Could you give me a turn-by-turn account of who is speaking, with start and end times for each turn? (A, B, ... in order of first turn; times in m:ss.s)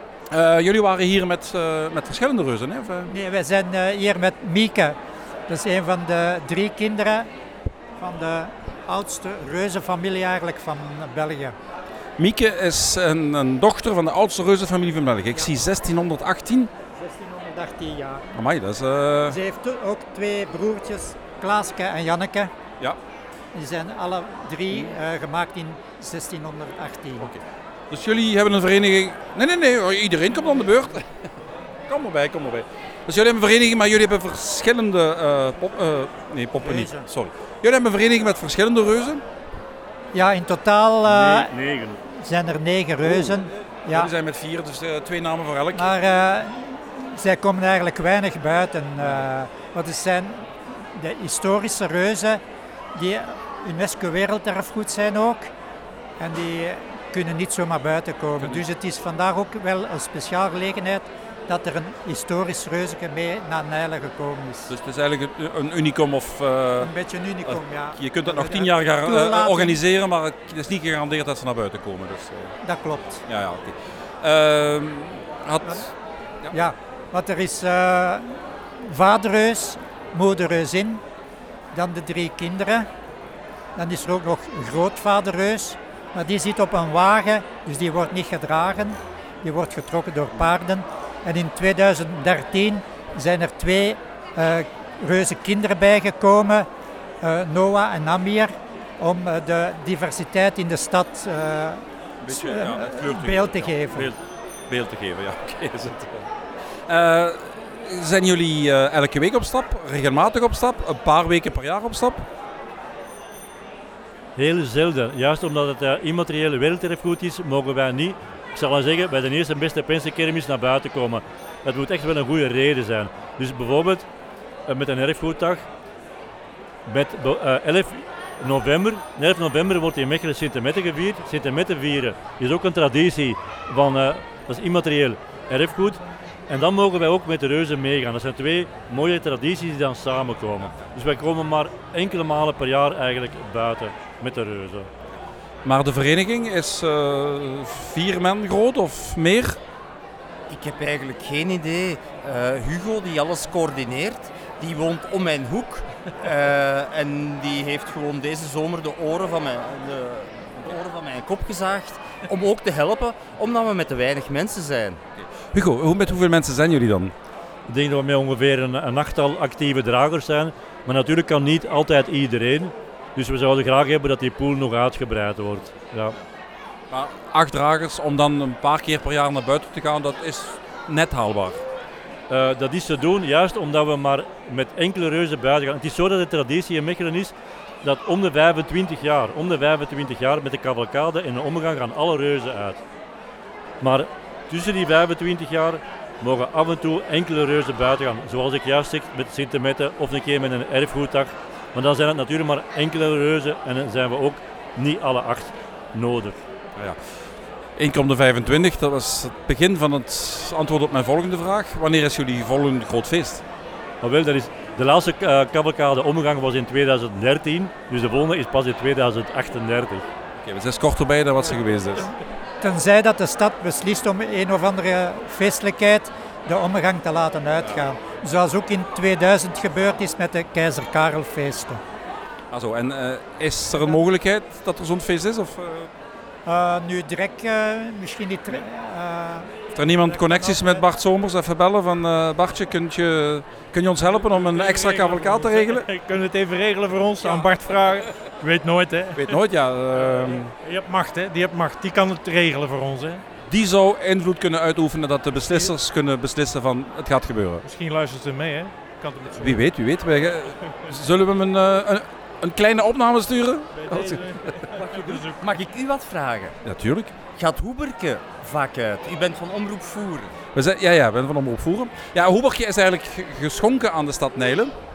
0:00.3-0:03.1 A
0:03.1-0:07.3 B
0:08.0-0:11.6 B
0:12.2-0:16.7 A
0:16.9-0:18.3 B
0:18.3-0:19.4 A
0:19.3-0:22.5 B
0:23.5-0:27.3 B
0:27.2-0:31.1 A
0:31.9-0:39.2 A
0:36.6-0:37.0 B
0:40.1-0:41.5 B
0:41.0-0:42.0 C
0:42.1-0:44.1 B
0:43.0-0:43.4 A
0:43.9-0:45.9 A
0:45.7-0:52.4 B
0:52.9-0:55.5 B
0:56.2-1:04.7 B
1:04.7-1:06.9 A
1:06.8-1:09.8 B
1:07.4-1:12.6 A
1:12.6-1:13.2 B
1:13.3-1:15.9 A
1:16.5-1:21.0 B
1:21.7-1:22.9 B
1:23.8-1:36.7 B
1:37.2-1:44.1 B
1:42.2-1:46.3 A
1:46.9-1:52.2 A
1:54.4-2:04.1 C
2:04.7-2:05.6 C
2:06.8-2:24.9 C
2:25.6-2:29.6 A
2:30.5-2:45.0 D
2:45.2-2:47.1 A
2:47.7-2:56.2 C
2:56.9-3:01.6 A
3:02.3-3:12.8 C
3:13.8-3:26.4 C
3:27.8-3:33.4 A
3:34.0-3:40.0 C
3:40.4-3:42.1 A
3:42.6-3:51.8 B
3:52.5-3:55.9 A
3:56.4-4:00.8 B
3:59.7-4:05.8 A
4:04.1-4:09.3 E
4:09.2-4:10.5 A
4:10.0-4:13.2 E
4:13.5-4:17.6 A
4:15.4-4:15.7 E
4:17.6-4:19.6 E
4:19.3-4:24.5 A
4:23.8-4:25.5 E
4:24.7-4:26.5 D
4:26.6-4:27.1 A
4:27.3-4:30.4 D
4:30.5-4:34.7 A